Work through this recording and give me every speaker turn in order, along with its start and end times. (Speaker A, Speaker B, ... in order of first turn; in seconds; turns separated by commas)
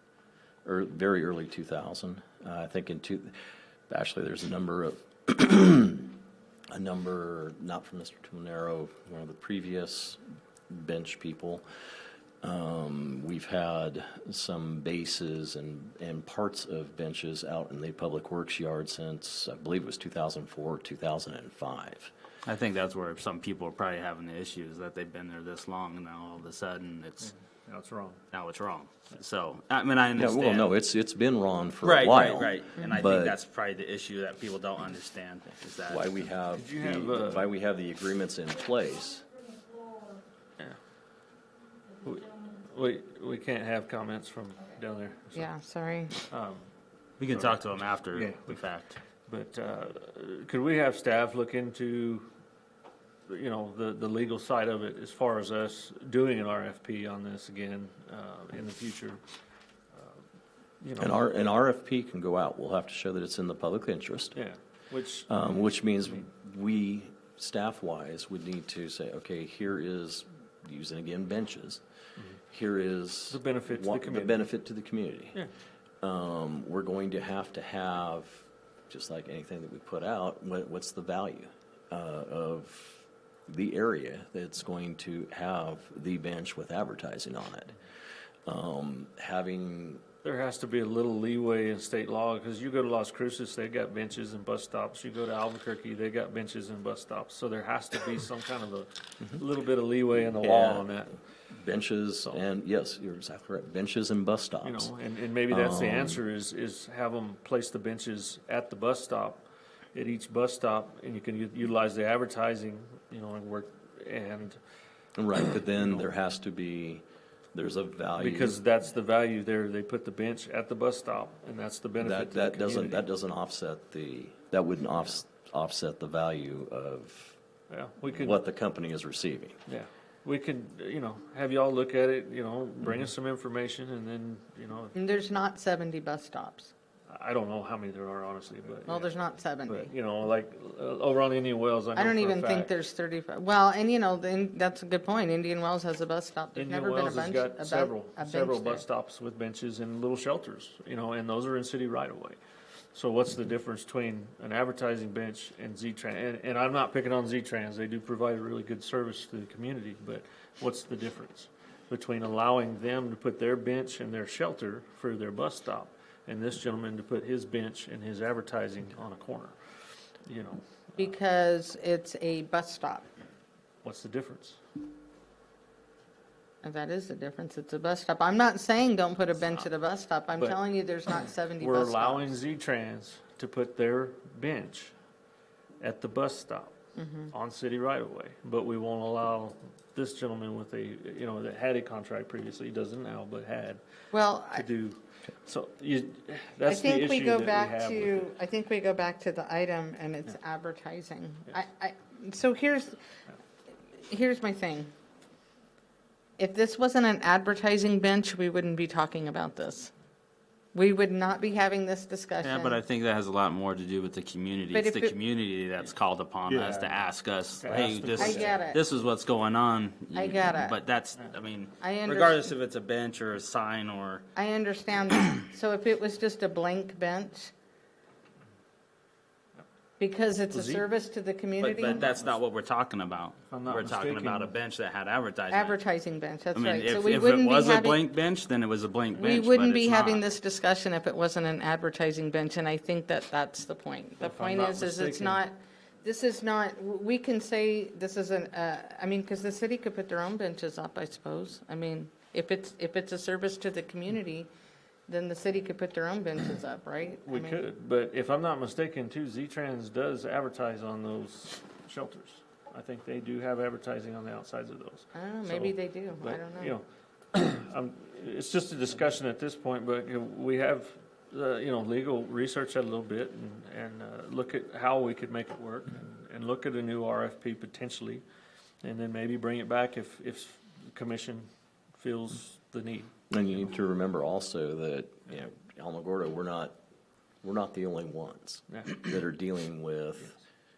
Speaker A: 0.7-3.4, Speaker A: 3.9-6.2, Speaker A: 6.7-11.6, Speaker A: 12.4-22.1, Speaker B: 22.4-27.3, Speaker C: 27.2-28.2, Speaker B: 28.3-30.7, Speaker A: 30.2-33.4, Speaker B: 31.8-36.1, Speaker A: 35.9-39.3, Speaker C: 36.5-37.5, Speaker C: 42.0-45.5, Speaker D: 45.3-46.2, Speaker C: 46.3-46.7, Speaker B: 47.2-49.0, Speaker C: 47.2-48.5, Speaker C: 49.3-52.3, Speaker C: 53.3-59.2, Speaker C: 59.9-60.2, Speaker C: 60.8-61.2, Speaker A: 61.0-64.4, Speaker C: 64.3-65.4, Speaker A: 65.3-71.8, Speaker A: 72.5-75.4, Speaker C: 73.3-74.4, Speaker A: 76.0-87.7, Speaker A: 88.5-90.0, Speaker C: 90.2-101.2, Speaker A: 100.4-100.9, Speaker A: 101.5-104.9, Speaker C: 104.6-114.6, Speaker A: 105.5-106.2, Speaker A: 115.1-118.6, Speaker C: 115.8-116.1, Speaker C: 118.2-123.0, Speaker A: 122.0-127.4, Speaker C: 127.7-128.4, Speaker A: 128.1-129.6, Speaker C: 129.7-134.9, Speaker D: 134.9-136.7, Speaker C: 137.1-142.7, Speaker D: 138.9-139.9, Speaker D: 141.9-148.8, Speaker C: 146.6-152.4, Speaker C: 152.9-169.6, Speaker C: 170.2-171.1, Speaker D: 171.0-173.1, Speaker C: 173.8-174.6, Speaker D: 176.6-182.4, Speaker C: 181.6-184.9, Speaker C: 185.8-186.8, Speaker D: 186.9-187.3, Speaker C: 187.3-193.8, Speaker D: 194.1-194.7, Speaker C: 194.5-198.3, Speaker D: 196.7-203.0, Speaker D: 204.0-204.9, Speaker D: 206.4-209.9, Speaker D: 210.7-212.8, Speaker B: 212.4-224.2, Speaker D: 214.7-215.2, Speaker C: 216.5-217.0, Speaker C: 217.6-218.7, Speaker D: 218.2-218.8, Speaker D: 220.1-220.8, Speaker D: 221.8-222.5, Speaker D: 224.3-227.5, Speaker D: 230.0-232.1, Speaker C: 230.5-230.8, Speaker B: 231.6-235.8, Speaker C: 232.0-232.3, Speaker C: 233.5-234.5, Speaker D: 235.5-238.0, Speaker B: 236.5-240.2, Speaker D: 239.2-254.5, Speaker C: 244.2-245.4, Speaker D: 255.1-257.6, Speaker C: 257.2-278.2, Speaker D: 265.1-266.8, Speaker C: 278.8-283.1, Speaker A: 283.3-286.8, Speaker A: 287.4-290.4, Speaker C: 288.7-289.0